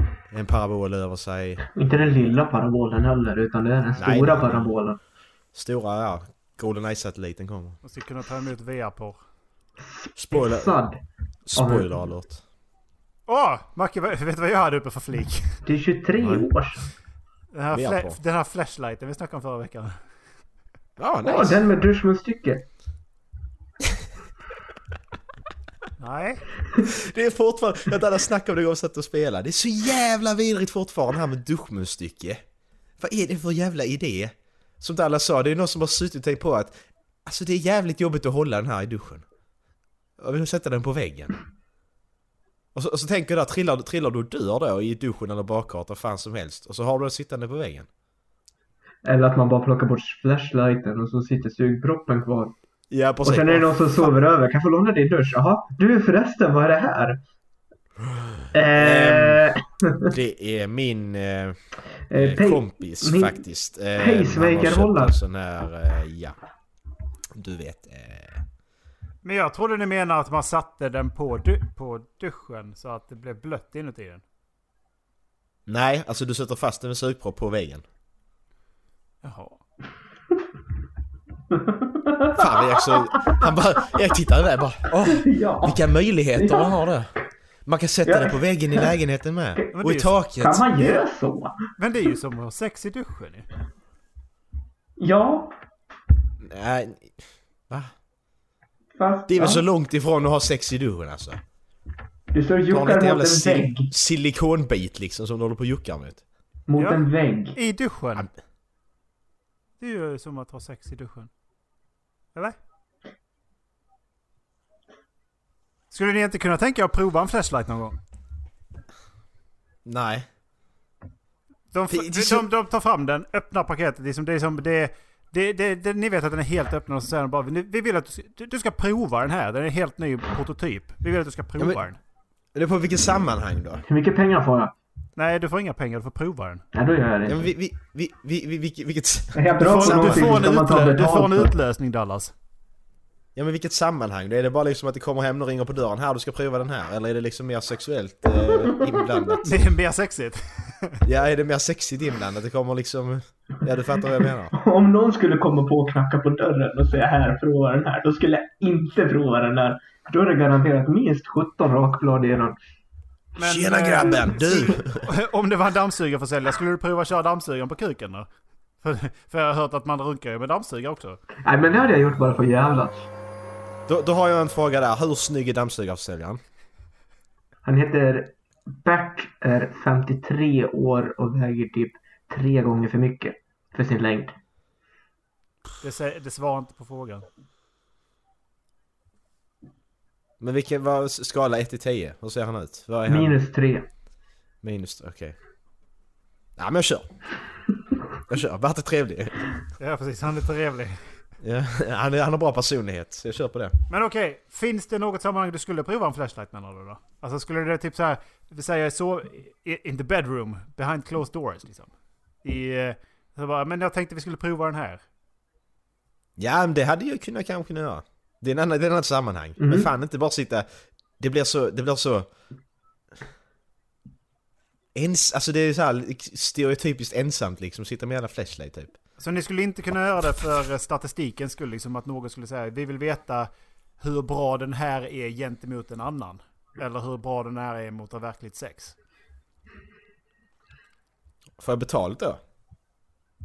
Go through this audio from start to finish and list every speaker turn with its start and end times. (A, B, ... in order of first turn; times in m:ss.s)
0:00.3-0:01.8 A
0:01.7-0:05.0 B
0:04.0-0:04.8 A
0:05.5-0:07.8 A
0:07.8-0:09.2 C
0:09.9-0:11.0 B
0:10.2-0:10.7 A
0:11.5-0:12.4 A
0:11.5-0:12.0 B
0:13.3-0:15.6 C
0:15.6-0:16.8 B
0:16.2-0:16.4 A
0:17.5-0:20.0 C
0:17.7-0:18.2 A
0:21.0-0:21.6 A
0:21.2-0:22.6 B
0:26.0-0:26.4 C
0:26.9-0:32.4 A
0:33.0-0:39.2 A
0:40.2-0:41.3 A
0:42.7-0:47.9 A
0:49.0-0:52.6 B
0:52.9-0:54.2 A
0:53.2-0:57.2 B
0:58.5-1:00.1 B
0:58.7-0:59.4 A
1:00.1-1:01.6 A
1:02.1-1:03.4 B
1:02.1-1:06.4 A
1:04.0-1:05.2 B
1:07.4-1:08.4 A
1:09.2-1:14.2 C
1:15.7-1:17.8 A
1:19.2-1:19.6 C
1:21.7-1:23.4 B
1:22.3-1:27.1 A
1:25.0-1:25.8 B
1:26.3-1:26.7 B
1:27.6-1:30.7 A
1:28.0-1:28.9 B
1:29.7-1:30.2 C
1:30.4-1:31.6 B
1:31.8-1:33.5 C
1:35.0-1:35.5 B
1:36.4-1:37.9 A
1:38.9-1:39.6 B
1:39.3-1:41.4 A
1:42.3-1:43.9 B
1:42.7-1:46.2 A
1:46.7-1:47.6 B
1:46.8-1:48.3 C
1:49.8-1:51.3 C
1:55.9-1:58.0 C
1:59.8-2:00.2 A
2:01.7-2:12.0 C
2:01.9-2:02.4 A
2:12.5-2:13.8 A
2:13.9-2:14.7 B
2:15.2-2:16.6 C
2:16.7-2:17.5 B
2:17.2-2:20.3 A
2:19.3-2:21.5 B
2:19.6-2:22.3 C
2:23.4-2:29.5 A
2:29.4-2:31.0 C
2:31.0-2:34.5 A
2:34.5-2:42.6 B
2:43.4-2:48.3 C
2:43.4-2:45.1 A
2:48.8-2:51.2 C
2:51.4-2:53.1 B
2:53.9-2:56.4 A
2:57.6-3:04.3 B
3:05.8-3:07.2 C
3:10.4-3:13.3 A
3:13.1-3:13.8 B
3:14.6-3:15.4 A
3:16.6-3:17.1 A
3:18.3-3:19.4 A
3:19.8-3:21.2 C
3:21.4-3:23.7 A
3:23.9-3:35.0 C
3:36.4-3:40.6 A
3:39.6-3:39.9 B
3:41.2-3:42.3 A
3:44.9-3:48.9 A
3:49.2-3:58.9 C
4:01.6-4:02.4 A